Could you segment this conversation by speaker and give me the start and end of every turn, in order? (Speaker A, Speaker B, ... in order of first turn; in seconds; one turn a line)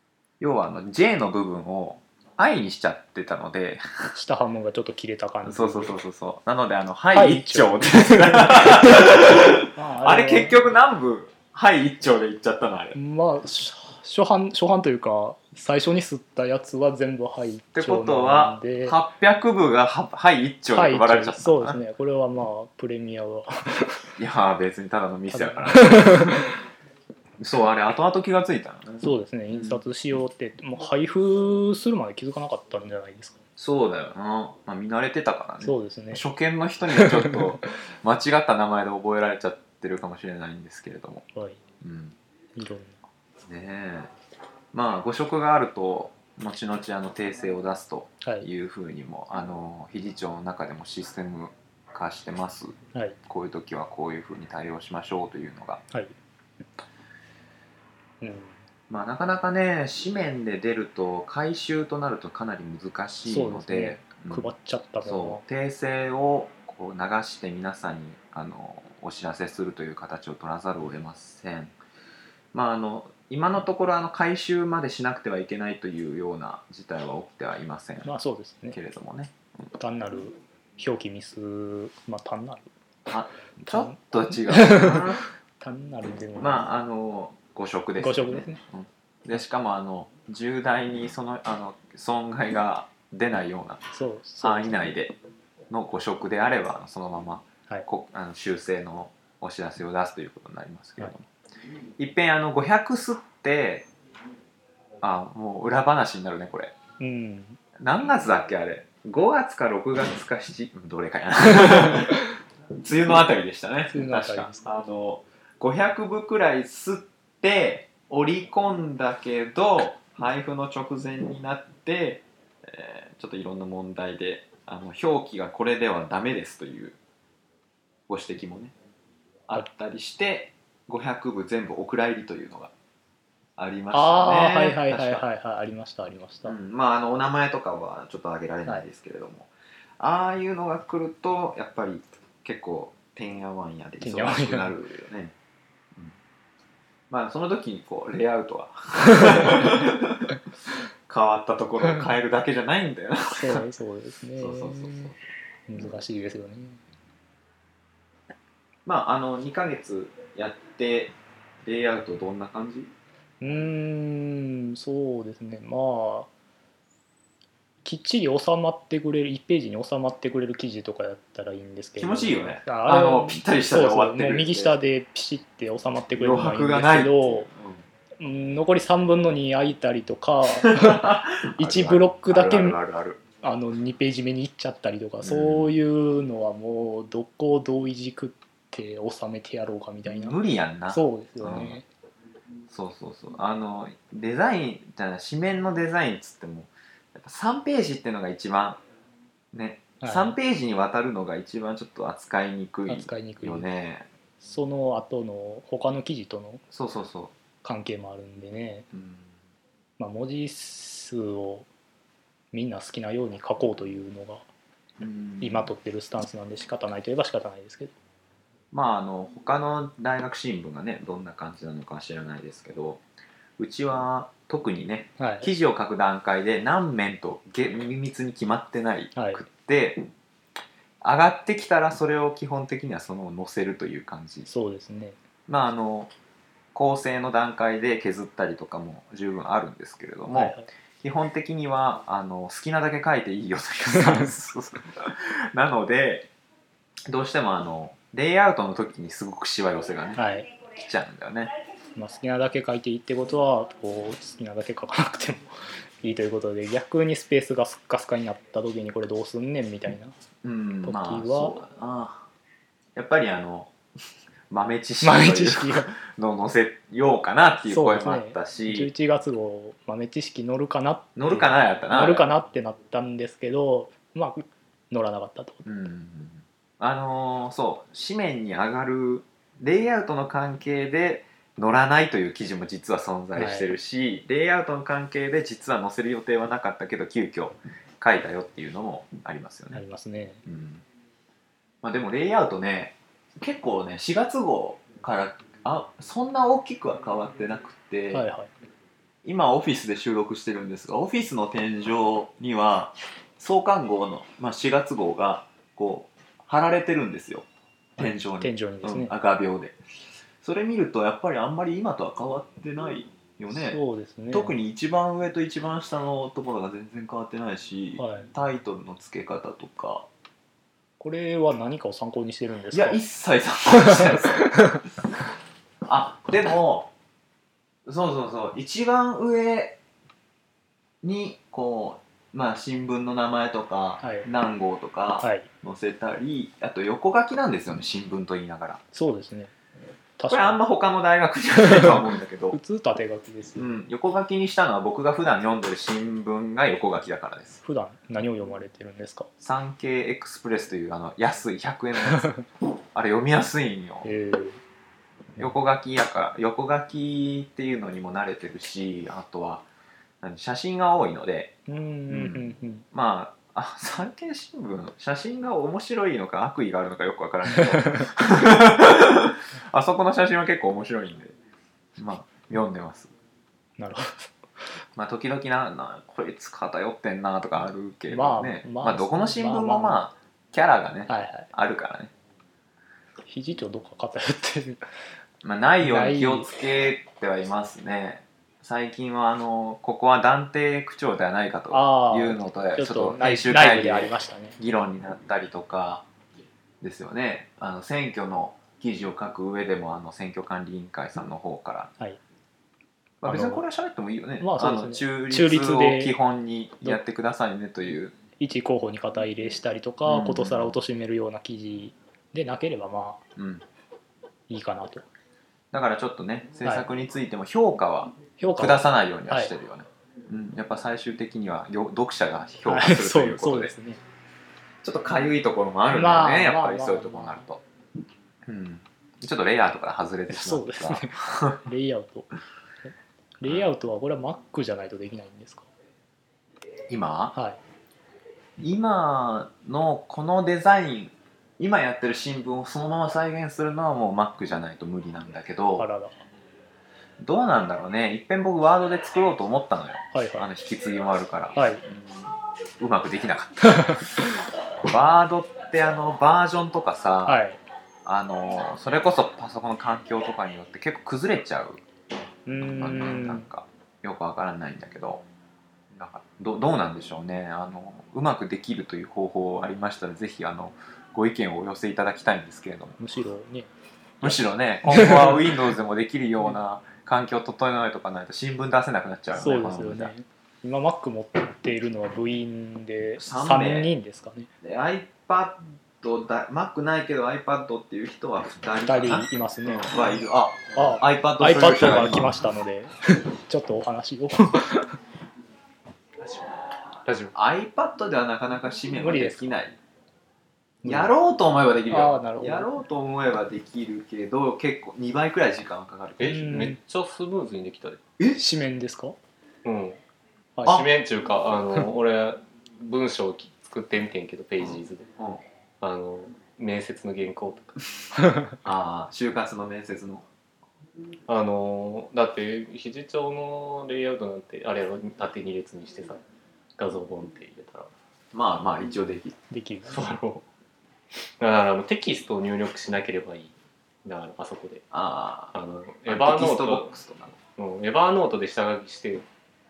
Speaker A: 0.4-4.2
Speaker B: 4.1-6.0
Speaker A: 5.4-13.0
Speaker B: 7.1-9.1
Speaker B: 9.7-10.6
Speaker B: 12.9-19.0
Speaker A: 17.8-21.8
Speaker B: 20.7-24.0
Speaker A: 24.2-26.4
Speaker B: 25.3-26.4
Speaker A: 27.4-29.8
Speaker B: 29.0-33.4
Speaker A: 33.6-41.3
Speaker B: 35.6-36.2
Speaker B: 37.0-37.4
Speaker B: 41.3-41.6
Speaker A: 41.8-42.2
Speaker B: 42.6-43.0
Speaker A: 43.5-44.1
Speaker A: 44.7-55.8
Speaker B: 48.2-48.5
Speaker B: 58.2-58.6
Speaker A: 58.9-64.5
Speaker B: 63.2-65.4
Speaker A: 65.0-71.7
Speaker A: 72.5-78.1
Speaker B: 78.0-78.8
Speaker A: 78.7-79.4
Speaker B: 79.8-82.7
Speaker A: 83.1-85.2
Speaker B: 83.7-84.0
Speaker B: 84.5-85.0
Speaker B: 85.6-86.7
Speaker A: 86.4-93.8
Speaker B: 88.0-88.6
Speaker B: 93.9-94.9
Speaker A: 94.4-95.2
Speaker A: 95.7-101.3
Speaker A: 102.0-103.9
Speaker A: 105.0-106.8
Speaker B: 107.0-107.6
Speaker A: 107.8-112.2
Speaker A: 112.8-127.0
Speaker B: 113.9-114.7
Speaker A: 128.1-128.7
Speaker A: 129.5-132.7
Speaker A: 133.6-135.2
Speaker B: 133.9-136.6
Speaker A: 136.4-145.3
Speaker B: 144.0-144.7
Speaker A: 147.1-150.1
Speaker A: 151.1-153.6
Speaker B: 153.4-155.1
Speaker A: 154.4-155.2
Speaker B: 155.7-156.8
Speaker A: 158.9-162.9
Speaker B: 163.4-166.3
Speaker B: 167.8-177.5
Speaker A: 172.0-174.8
Speaker A: 176.2-177.8
Speaker B: 178.2-182.8
Speaker A: 180.6-183.2
Speaker B: 183.4-190.4
Speaker A: 185.2-185.8
Speaker A: 190.1-191.8
Speaker B: 190.9-191.9
Speaker A: 192.7-198.8
Speaker A: 199.5-204.1
Speaker B: 200.0-200.4
Speaker B: 202.9-203.7
Speaker B: 204.4-206.6
Speaker A: 206.7-207.3
Speaker B: 207.6-208.9
Speaker A: 208.9-209.3
Speaker B: 210.0-211.7
Speaker B: 212.5-214.5
Speaker A: 215.0-215.7
Speaker B: 215.4-217.9
Speaker A: 218.7-223.0
Speaker A: 223.6-230.0
Speaker B: 225.2-225.5
Speaker B: 229.2-229.4
Speaker A: 231.0-234.5
Speaker B: 234.5-235.2
Speaker A: 235.5-236.1
Speaker A: 236.8-246.3
Speaker B: 240.3-240.7
Speaker B: 243.9-244.3
Speaker A: 247.1-251.5
Speaker B: 250.2-250.5
Speaker B: 252.0-260.1
Speaker A: 260.4-262.3
Speaker B: 260.8-261.6
Speaker A: 262.9-263.7
Speaker A: 264.5-268.9
Speaker B: 265.0-265.9
Speaker B: 267.7-275.6
Speaker A: 271.2-272.3
Speaker A: 275.6-289.8
Speaker B: 283.4-283.7
Speaker B: 289.7-290.4
Speaker A: 290.4-290.8
Speaker A: 291.8-298.2
Speaker B: 298.1-298.5
Speaker A: 299.2-307.5
Speaker B: 308.0-309.1
Speaker A: 308.0-309.8
Speaker A: 310.4-320.1
Speaker B: 313.5-314.6
Speaker B: 318.0-318.3
Speaker B: 321.0-323.0
Speaker A: 322.7-324.7
Speaker B: 323.8-324.1
Speaker A: 325.9-326.9
Speaker A: 327.9-329.8
Speaker A: 331.0-338.8
Speaker B: 334.0-334.3
Speaker B: 335.2-335.5
Speaker B: 338.9-339.5
Speaker B: 340.2-340.6
Speaker A: 340.3-342.6
Speaker B: 342.5-343.7
Speaker A: 343.6-347.6
Speaker B: 347.6-349.3
Speaker A: 349.4-352.4
Speaker A: 352.9-354.1
Speaker B: 354.0-354.6
Speaker A: 355.4-359.6
Speaker A: 360.2-361.6
Speaker B: 361.7-362.9
Speaker A: 362.1-371.4
Speaker B: 367.8-368.1
Speaker A: 372.0-373.1
Speaker B: 373.8-374.3
Speaker A: 375.0-382.1
Speaker B: 378.1-380.1
Speaker B: 381.1-381.5
Speaker B: 383.3-384.8
Speaker A: 385.4-396.1
Speaker B: 385.8-386.5
Speaker B: 391.7-394.6
Speaker A: 396.8-401.9
Speaker A: 403.2-408.2
Speaker B: 403.2-403.6
Speaker B: 404.4-406.1
Speaker B: 408.4-413.2
Speaker A: 410.1-410.8
Speaker A: 413.4-413.7
Speaker B: 414.5-415.1
Speaker A: 415.7-423.7
Speaker B: 418.4-419.5
Speaker B: 422.7-424.0
Speaker A: 424.8-427.6
Speaker B: 425.9-427.5
Speaker A: 428.5-431.6
Speaker B: 430.3-432.3
Speaker B: 432.9-435.7
Speaker A: 433.4-433.7
Speaker A: 436.9-437.4
Speaker B: 437.4-437.6
Speaker A: 438.6-445.9
Speaker B: 445.8-446.2
Speaker A: 447.2-457.4
Speaker B: 450.1-450.5
Speaker B: 451.6-451.8
Speaker B: 457.3-457.6
Speaker A: 458.1-461.8
Speaker B: 462.5-463.5
Speaker A: 462.6-465.2
Speaker A: 465.9-473.0
Speaker B: 473.0-473.7
Speaker B: 474.2-475.4
Speaker A: 474.2-480.1
Speaker B: 479.3-484.5
Speaker A: 483.2-483.9
Speaker A: 484.6-492.4
Speaker B: 488.9-490.1
Speaker B: 490.8-494.8
Speaker C: 496.2-497.3
Speaker A: 497.3-499.8
Speaker B: 498.9-499.5
Speaker B: 500.8-501.1
Speaker A: 500.9-506.4
Speaker B: 501.9-502.7
Speaker C: 506.2-508.0
Speaker B: 506.2-506.8
Speaker B: 508.4-509.2
Speaker C: 509.6-510.0
Speaker B: 510.6-510.8
Speaker C: 510.6-515.1
Speaker A: 514.6-515.4
Speaker C: 515.8-517.8
Speaker A: 518.6-520.3
Speaker C: 521.3-526.2
Speaker C: 526.8-527.9
Speaker A: 528.3-529.4
Speaker B: 529.5-530.1
Speaker C: 529.9-530.4
Speaker C: 531.4-533.5
Speaker C: 534.0-534.8
Speaker A: 534.9-535.6
Speaker C: 535.5-536.9
Speaker A: 536.1-537.4
Speaker C: 537.6-539.3